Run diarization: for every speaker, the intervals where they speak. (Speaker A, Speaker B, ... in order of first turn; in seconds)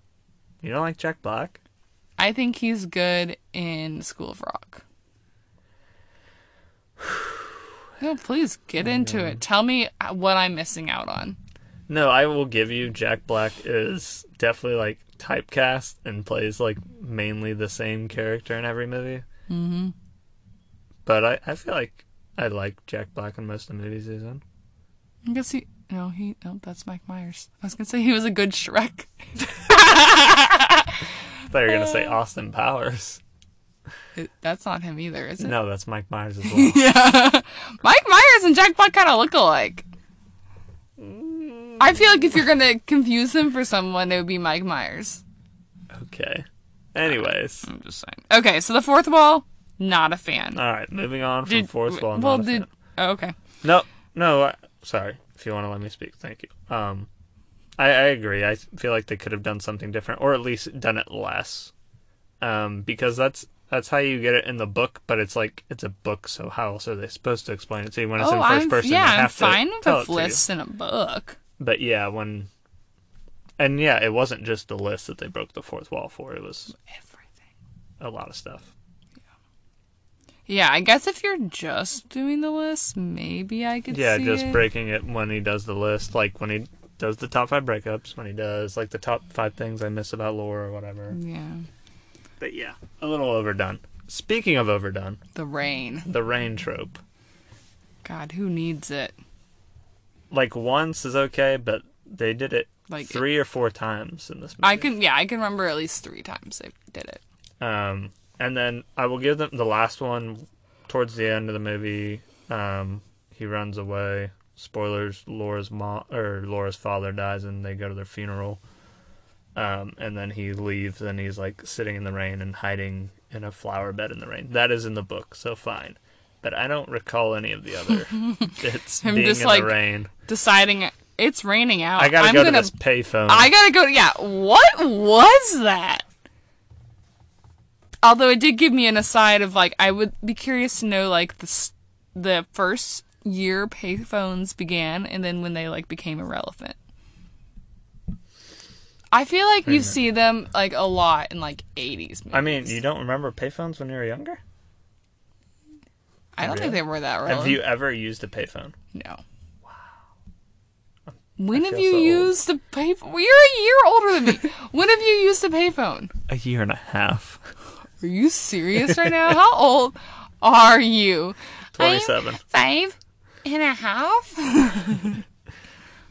Speaker A: 0.6-1.6, 8.8-9.4, 11.9-19.2, 21.0-24.4, 31.5-33.2, 35.4-36.8, 41.0-42.0, 45.9-47.7, 50.5-52.7, 53.6-57.1, 57.8-61.7, 62.4-70.4, 71.6-72.5, 73.6-76.7, 78.0-78.7, 83.9-91.2, 92.4-95.2, 96.0-97.0, 100.3-104.9, 107.6-118.6, 119.5-130.1, 132.0-133.5, 149.7-149.9, 152.3-154.4, 156.4-158.7, 161.5-162.3, 166.3-167.4, 171.7-172.4
Speaker B: 2.2-4.8, 8.0-11.4, 19.5-19.9, 25.2-31.1, 31.7-32.1, 34.1-35.5, 36.4-39.9, 41.8-45.2, 47.6-50.6, 51.5-53.3, 68.2-71.4, 76.9-77.2, 80.5-84.6, 91.1-91.7, 95.3-96.1, 98.0-99.2, 102.9-103.2, 104.6-107.2, 128.1-136.0, 138.0-146.8, 149.1-152.8, 156.3-157.7, 158.9-159.2, 161.4-166.1, 168.0-175.2